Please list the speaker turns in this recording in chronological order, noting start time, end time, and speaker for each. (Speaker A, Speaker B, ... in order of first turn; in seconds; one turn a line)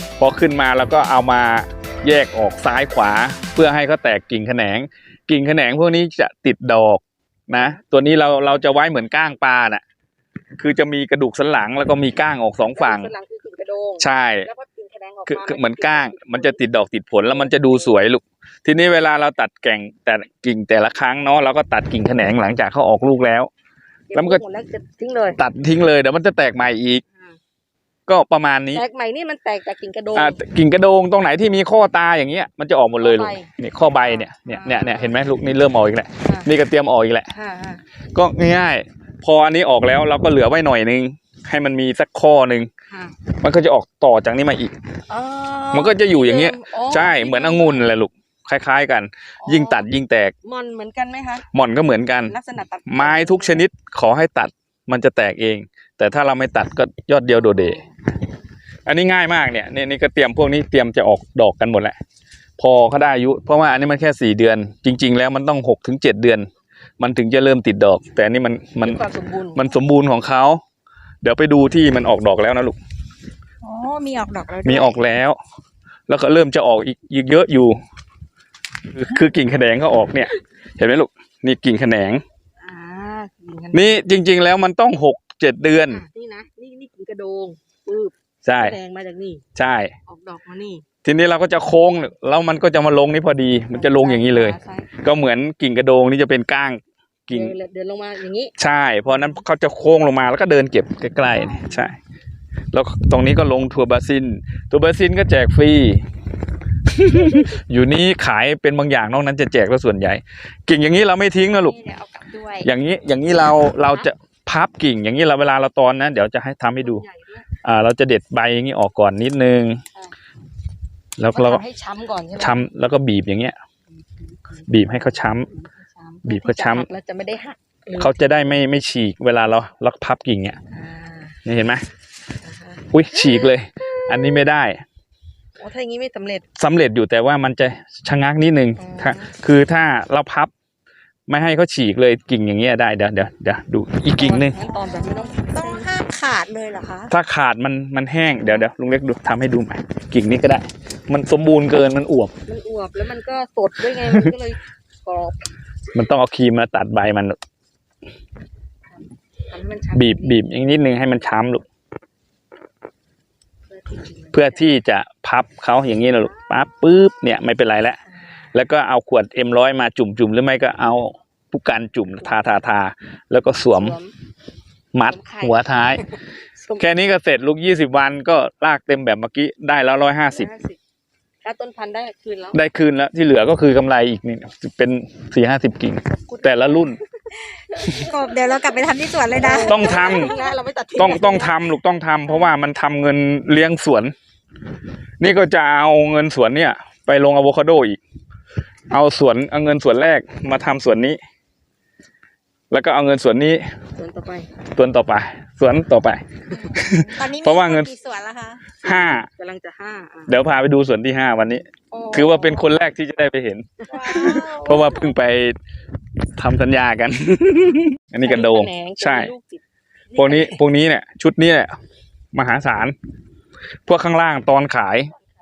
Speaker A: 0.2-9.8
Speaker A: 10.6-13.1
Speaker B: 12.7-16.6
Speaker A: 14.0-14.5
Speaker A: 15.2-23.5
Speaker B: 17.2-17.9
Speaker B: 24.1-25.4
Speaker A: 24.1-24.4
Speaker A: 25.4-27.0
Speaker A: 28.1-28.8
Speaker B: 28.7-30.4
Speaker A: 30.1-37.3
Speaker B: 33.0-35.1
Speaker B: 36.2-36.5
Speaker B: 37.3-37.8
Speaker A: 38.1-42.7
Speaker B: 42.9-43.1
Speaker A: 43.4-44.7
Speaker B: 45.1-47.9
Speaker A: 45.7-50.3
Speaker B: 49.4-49.9
Speaker B: 50.4-51.5
Speaker A: 51.5-52.3
Speaker B: 52.2-53.6
Speaker A: 52.9-57.8
Speaker B: 57.3-57.9
Speaker A: 58.9-62.0
Speaker A: 62.6-66.5
Speaker A: 67.0-69.0
Speaker B: 68.8-69.6
Speaker A: 69.5-70.6
Speaker A: 71.2-72.8
Speaker C: 73.6-75.0
Speaker A: 74.6-75.4
Speaker A: 76.1-77.8
Speaker A: 78.9-82.2
Speaker B: 82.6-84.0
Speaker A: 83.7-86.0
Speaker B: 85.8-89.4
Speaker A: 88.4-88.7
Speaker A: 89.5-89.9
Speaker B: 90.1-90.8
Speaker A: 91.0-97.5
Speaker B: 93.7-94.9
Speaker B: 97.3-98.5
Speaker A: 98.6-102.0
Speaker A: 102.7-106.0
Speaker A: 106.9-111.7
Speaker C: 111.5-112.7
Speaker A: 112.6-117.0
Speaker B: 116.8-117.5
Speaker A: 117.6-119.8
Speaker A: 121.2-121.6
Speaker B: 121.3-122.6
Speaker A: 122.4-123.5
Speaker B: 124.2-128.2
Speaker A: 124.7-125.5
Speaker A: 126.2-126.9
Speaker A: 128.0-130.6
Speaker B: 130.7-131.4
Speaker A: 131.4-131.8
Speaker B: 132.4-133.0
Speaker A: 132.9-134.8
Speaker B: 135.6-136.4
Speaker A: 136.6-140.5
Speaker B: 138.8-139.3
Speaker A: 141.3-144.6
Speaker B: 144.1-145.9
Speaker C: 144.7-147.1
Speaker A: 147.1-152.3
Speaker B: 152.4-155.5
Speaker A: 155.9-157.4
Speaker B: 158.9-160.4
Speaker A: 159.9-161.6
Speaker B: 163.7-164.7
Speaker A: 164.3-168.0
Speaker A: 168.5-174.0
Speaker B: 173.7-174.1
Speaker A: 174.9-176.0
Speaker B: 175.0-176.8
Speaker A: 176.8-180.5
Speaker B: 180.2-180.8
Speaker B: 181.4-182.6
Speaker A: 182.5-187.0
Speaker B: 186.2-187.0
Speaker C: 187.8-190.3
Speaker B: 189.3-191.6
Speaker A: 189.6-190.3
Speaker A: 191.0-194.1
Speaker C: 192.3-192.5
Speaker A: 195.2-198.0
Speaker A: 198.9-201.2
Speaker A: 202.7-203.6
Speaker B: 204.0-204.5
Speaker A: 204.7-207.9
Speaker C: 206.7-208.6
Speaker B: 208.8-210.3
Speaker A: 208.8-209.3
Speaker A: 210.3-213.7
Speaker B: 211.9-212.8
Speaker C: 213.9-214.9
Speaker B: 213.9-214.5
Speaker A: 214.6-215.6
Speaker A: 216.4-219.3
Speaker B: 218.2-219.6
Speaker B: 220.1-220.6
Speaker A: 220.2-221.7
Speaker A: 222.3-222.9
Speaker A: 223.9-225.1